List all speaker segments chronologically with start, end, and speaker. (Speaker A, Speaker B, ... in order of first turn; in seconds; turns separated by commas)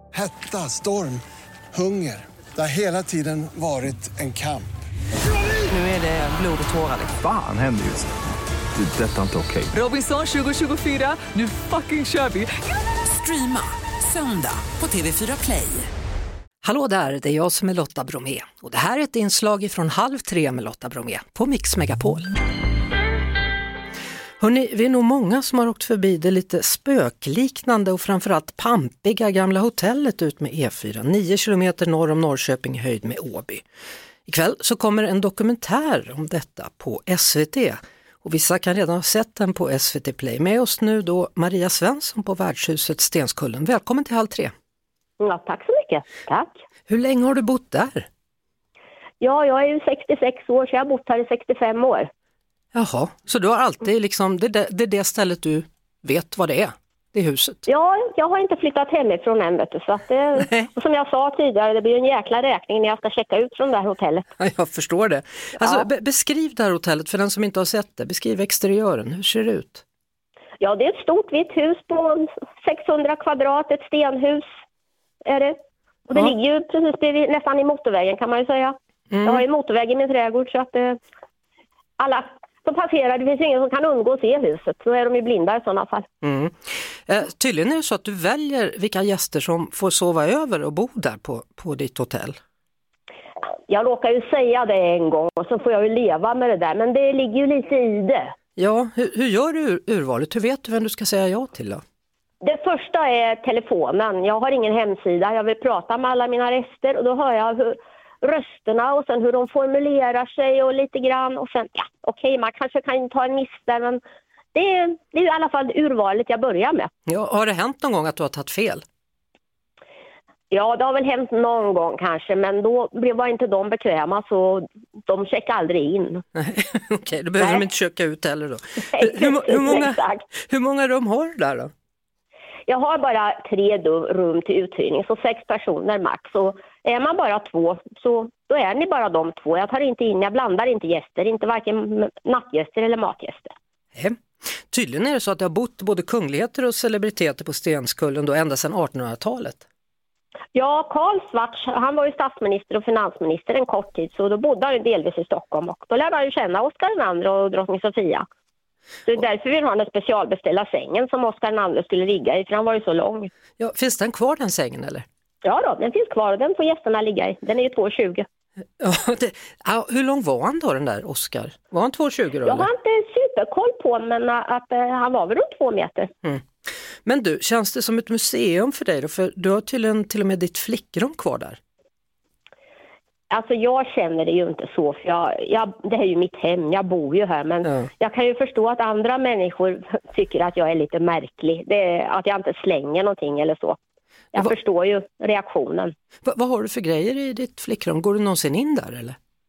Speaker A: 0.1-1.2, Speaker A: 1.7-4.7, Speaker B: 5.7-7.2, Speaker C: 7.2-8.1, Speaker C: 8.8-9.7, Speaker B: 9.7-15.9, Speaker D: 16.6-22.3, Speaker D: 24.4-33.6, Speaker D: 34.2-44.5, Speaker E: 45.2-46.6, Speaker D: 46.9-48.0, Speaker E: 49.2-52.1, Speaker D: 52.7-57.6, Speaker E: 57.6-64.3, Speaker D: 64.4-69.8, Speaker E: 65.6-65.8, Speaker E: 70.6-74.5, Speaker E: 75.2-75.5, Speaker E: 76.1-81.0, Speaker D: 79.1-79.4, Speaker E: 82.0-86.1, Speaker D: 86.2-86.5, Speaker D: 87.1-92.4, Speaker E: 93.7-98.3, Speaker D: 98.6-101.8, Speaker E: 102.4-114.0, Speaker E: 114.5-116.9, Speaker D: 117.1-118.8, Speaker E: 120.5-126.2, Speaker D: 126.3-131.7, Speaker E: 127.4-127.6, Speaker E: 128.9-130.2, Speaker E: 132.7-143.5, Speaker D: 144.7-149.6, Speaker E: 150.5-158.2, Speaker E: 159.1-163.3, Speaker D: 163.6-165.0, Speaker E: 165.4-168.2, Speaker D: 168.8-172.7, Speaker E: 172.4-176.1, Speaker D: 177.0-181.6, Speaker E: 183.3-193.8, Speaker E: 194.3-195.9, Speaker D: 196.2-199.2